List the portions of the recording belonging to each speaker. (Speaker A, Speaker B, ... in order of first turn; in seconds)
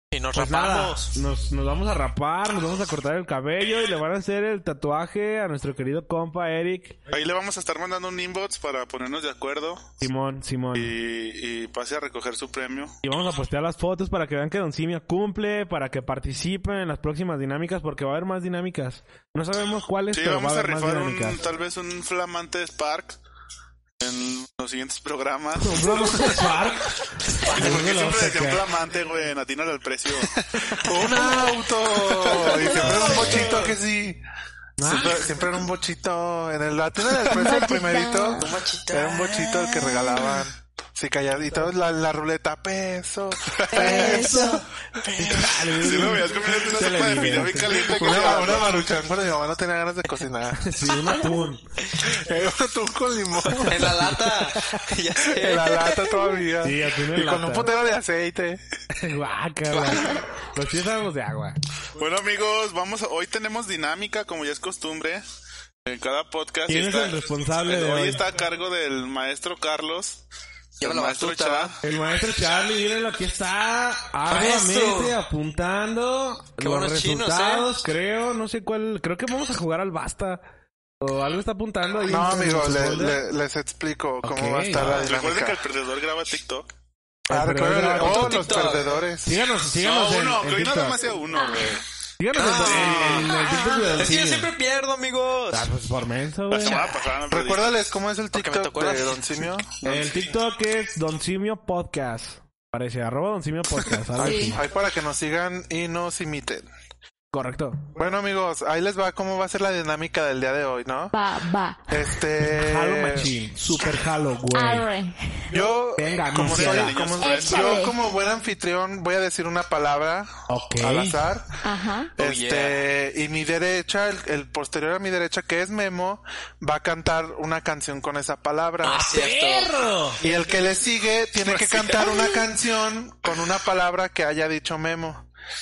Speaker A: 0.1-1.1, 33.0-33.7, 38.4-40.2, 53.6-56.1, 70.8-71.7, 74.3-75.2, 76.6-77.7, 88.0-89.0, 92.3-93.4, 93.9-95.7, 98.3-99.5, 122.2-122.8, 128.8-129.9
Speaker B: 0.3-7.0, 10.0-10.9, 13.0-21.4, 25.6-28.6, 34.8-35.3, 43.8-44.5, 45.0-47.8, 50.6-51.6, 53.8-54.8, 56.6-57.7, 58.9-61.6, 66.7-68.2, 71.8-80.4, 81.0-83.2, 84.2-85.0, 87.3-91.0, 92.2-94.5, 95.5-96.8, 99.8-104.6, 107.3-107.8, 112.4-114.9, 116.0-117.0, 120.5-121.2, 128.8-130.2
Speaker C: 7.1-10.0, 10.7-12.9, 20.1-23.2, 24.0-26.5, 27.5-30.3, 32.5-33.5, 43.6-44.0, 45.3-48.8, 62.0-65.2, 65.8-70.2, 70.8-71.8, 84.7-86.7, 89.8-91.8, 92.6-93.3, 96.5-97.7, 116.3-117.8, 131.5-132.1
Speaker D: 30.8-34.2, 34.8-44.6, 47.7-50.9, 52.0-54.1, 55.2-58.6, 82.0-85.6, 87.3-89.4, 97.3-100.1, 104.2-106.7, 108.0-111.2, 111.9-113.3, 115.5-121.5, 122.2-129.1, 130.2-135.3
Speaker E: 37.3-38.4, 43.7-44.6, 93.3-93.8, 104.2-104.6, 111.1-112.0, 114.5-115.5, 117.2-118.0, 121.6-122.1